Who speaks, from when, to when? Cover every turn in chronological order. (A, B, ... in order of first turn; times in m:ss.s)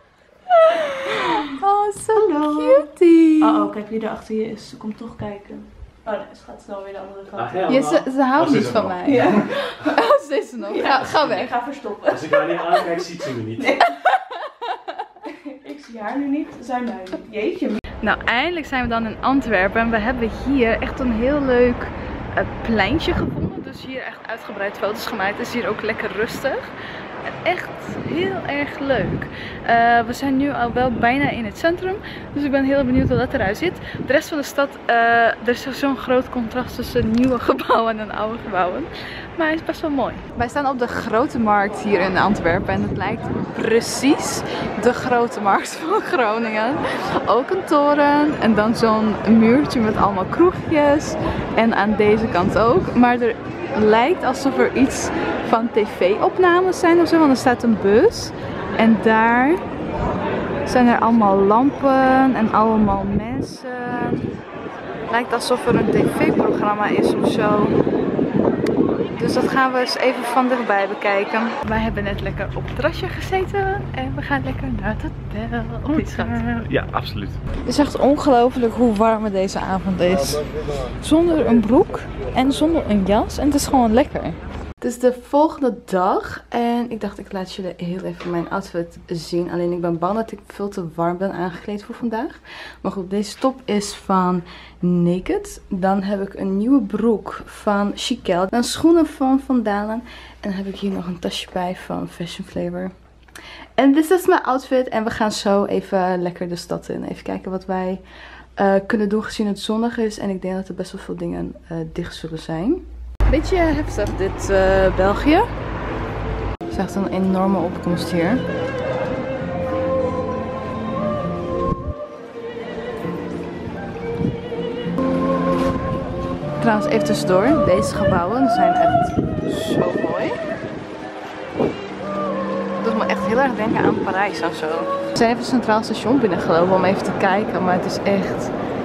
0:00.5-0:03.7 A
0:02.2-0:02.9 B
0:03.4-0:07.8 B
0:07.4-0:09.5 C
0:07.7-0:11.5 A
0:09.0-0:10.0 B
0:10.6-0:14.0 B
0:12.1-0:13.7 C
0:13.9-0:14.6 A
0:15.2-0:17.8 B
0:18.0-0:26.7 A
0:27.2-0:59.7 A
1:00.7-1:04.2 A
1:05.1-1:07.8 A
1:09.2-1:16.7 A
1:16.6-1:17.4 C
1:17.6-1:42.9 A
1:43.8-1:48.0 A
1:48.6-1:55.5 A
1:56.7-1:58.4 A
2:06.6-2:10.4 A
2:12.8-2:18.5 A